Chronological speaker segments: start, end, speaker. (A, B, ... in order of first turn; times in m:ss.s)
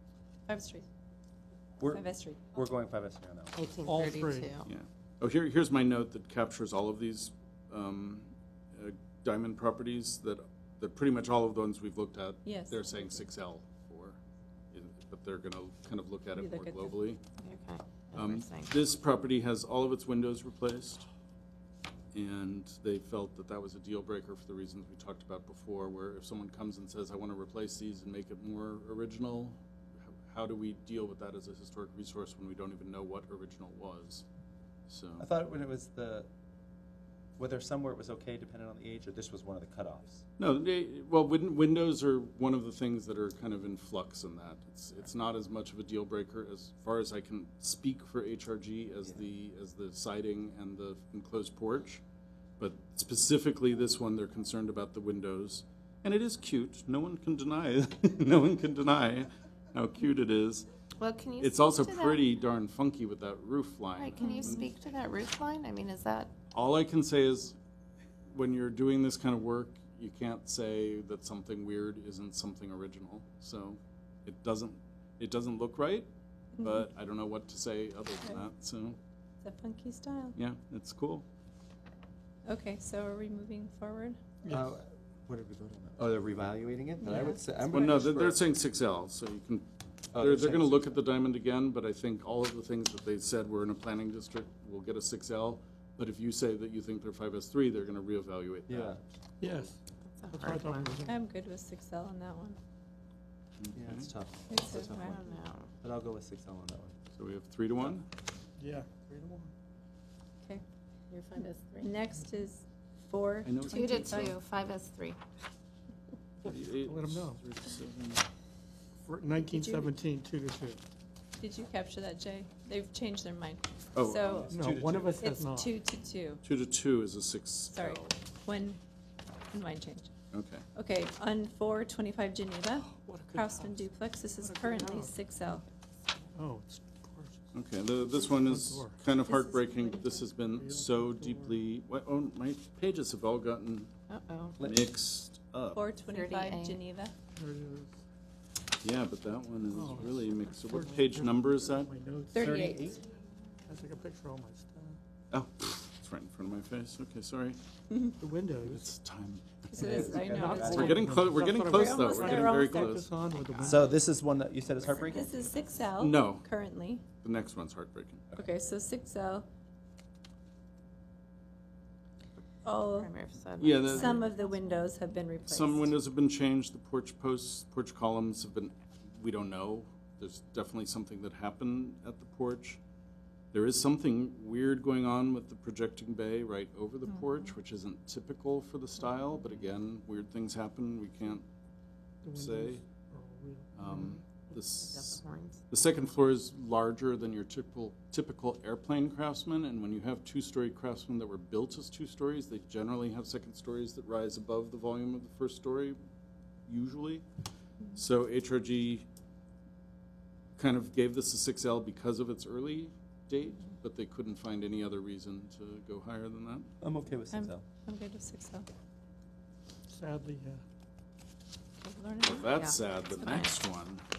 0:00.5-0:00.8 A
0:01.8-0:03.6 B
0:01.8-0:02.5 A
0:03.6-0:04.5 C
0:03.7-0:04.7 D
0:04.6-0:14.2 E
0:12.4-0:13.1 A
0:14.7-0:17.2 E
0:16.3-0:17.0 A
0:17.4-0:18.8 D
0:18.1-0:21.0 E
0:22.1-0:29.6 E
0:30.3-0:34.2 E
0:34.9-0:35.2 E
0:35.2-0:36.3 B
0:37.4-0:40.2 B
0:40.4-0:52.0 E
0:52.6-1:00.6 E
1:01.0-1:02.2 D
1:01.4-1:04.7 E
1:04.0-1:06.3 D
1:04.2-1:04.7 A
1:06.5-1:07.6 E
1:08.3-1:16.1 E
1:16.6-1:16.9 A
1:16.6-1:19.0 E
1:19.4-1:20.4 A
1:20.4-1:21.2 E
1:22.4-1:24.2 A
1:24.4-1:28.4 B
1:27.0-1:28.0 A
1:27.6-1:39.7 E
1:30.1-1:31.0 B
1:38.7-1:39.0 B
1:39.4-1:41.2 C
1:40.0-1:40.7 D
1:41.0-1:42.6 A
1:43.6-1:44.1 E
1:43.7-1:45.2 B
1:44.5-1:45.4 A
1:45.0-1:45.7 D
1:45.8-1:46.9 B
1:47.2-1:48.0 E
1:48.6-1:49.5 C
1:51.1-1:51.9 D
1:51.4-1:54.4 A
1:53.4-1:54.4 E
1:53.7-1:55.2 D
1:56.4-1:58.2 E
1:56.5-1:57.4 C
1:59.0-2:00.8 C
1:59.4-1:59.9 A
2:01.4-2:04.5 A
2:03.9-2:04.7 E
2:04.4-2:05.1 B
2:04.5-2:05.7 C
2:05.2-2:06.4 A
2:06.4-2:08.1 E
2:07.7-2:08.8 A
2:09.5-2:10.1 A
2:10.3-2:10.6 E
2:10.7-2:15.6 A
2:12.8-2:15.3 C
2:16.3-2:17.5 C
2:17.5-2:23.9 E
2:18.1-2:19.0 C
2:19.2-2:20.3 A
2:20.4-2:21.6 C
2:24.1-2:24.6 D
2:24.6-2:24.8 B
2:24.6-2:25.8 E
2:25.7-2:27.1 A
2:26.1-2:26.8 D
2:27.4-2:27.9 C
2:28.8-2:31.9 E
2:29.7-2:32.9 C
2:32.3-2:32.9 A
2:32.4-2:33.0 B
2:33.7-2:35.0 C
2:35.3-2:37.6 E
2:38.2-2:38.9 C
2:38.6-2:43.1 E
2:39.7-2:41.0 A
2:39.8-2:41.0 B
2:40.1-2:44.0 C
2:41.6-2:43.0 A
2:43.6-2:45.5 B
2:45.0-2:47.0 A
2:46.0-2:46.4 E
2:47.2-2:48.2 E
2:48.3-2:49.4 A
2:52.6-2:53.1 A
2:52.9-2:54.4 D
2:53.6-2:54.2 E
2:53.6-2:55.9 A
2:55.4-3:02.8 E
3:03.5-3:11.4 E
3:12.2-3:14.6 C
3:12.3-3:12.8 E
3:13.8-3:26.0 E
3:14.8-3:15.6 D
3:26.7-3:27.2 E
3:28.0-3:29.0 E
3:30.6-3:36.7 E
3:36.8-3:37.6 B
3:37.3-3:38.7 A
3:39.9-3:40.6 C
3:41.8-3:43.6 A
3:42.2-3:44.0 E
3:42.5-3:43.5 D